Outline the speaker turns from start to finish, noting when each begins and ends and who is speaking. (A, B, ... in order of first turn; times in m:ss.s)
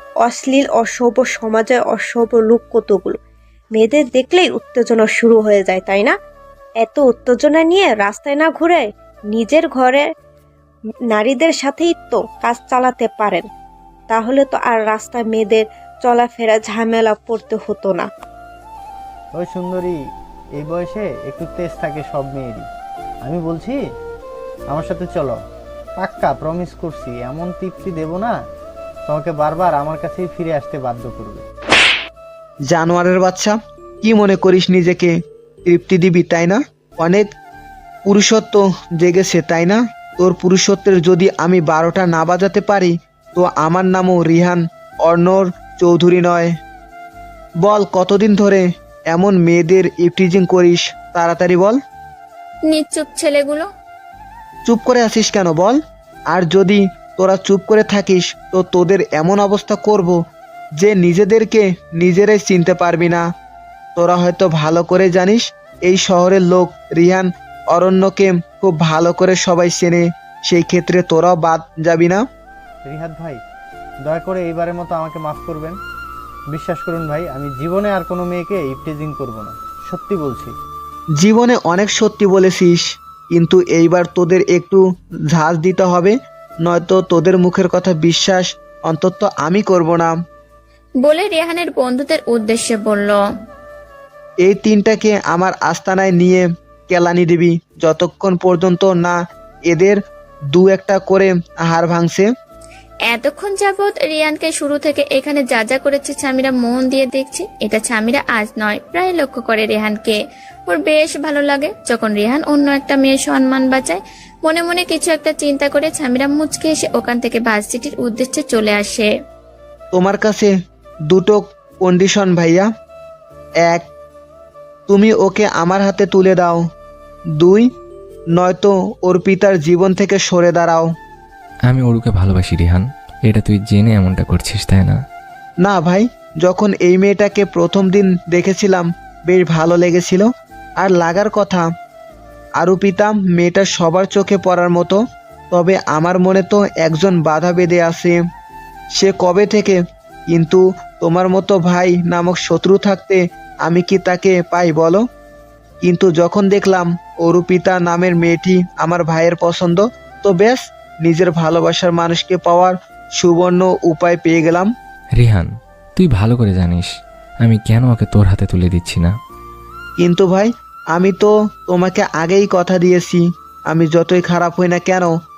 0:00.2-0:03.2 A
0:03.8-0:06.2 A
0:06.8-0:10.1 A
0:11.1-0:13.5 A
0:14.1-0:18.1 A
0:19.3-0:20.0 B
0:20.6-0:22.7 B
0:23.2-0:23.8 B
0:24.7-0:25.4 B
0:26.0-0:28.4 B
0:29.1-0:31.4 B
0:32.7-0:37.3 C
0:38.1-0:46.5 C
0:47.6-0:51.8 C
0:52.7-0:53.7 D
0:54.7-0:55.8 C
0:56.3-1:00.2 C
1:00.8-1:03.2 C
1:04.0-1:12.2 C
1:12.8-1:13.4 B
1:14.0-1:15.8 B
1:16.5-1:20.5 B
1:21.2-1:24.8 C
1:25.3-1:30.2 C
1:31.0-1:33.2 D
1:34.4-1:39.2 C
1:39.7-1:40.0 C
1:40.5-1:42.3 C
1:43.1-1:50.2 D
1:50.7-1:59.1 D
1:59.9-2:00.5 C
2:01.1-2:02.7 C
2:04.9-2:06.6 C
2:07.4-2:07.7 C
2:08.4-2:10.9 C
2:11.7-2:15.0 E
2:15.6-2:21.7 C
2:22.6-2:25.0 C
2:25.5-2:28.2 C
2:29.0-2:29.8 C
2:30.3-2:35.0 C
2:35.8-2:44.7 C
2:45.2-2:46.9 E
2:47.4-2:49.1 E
2:50.0-2:55.1 C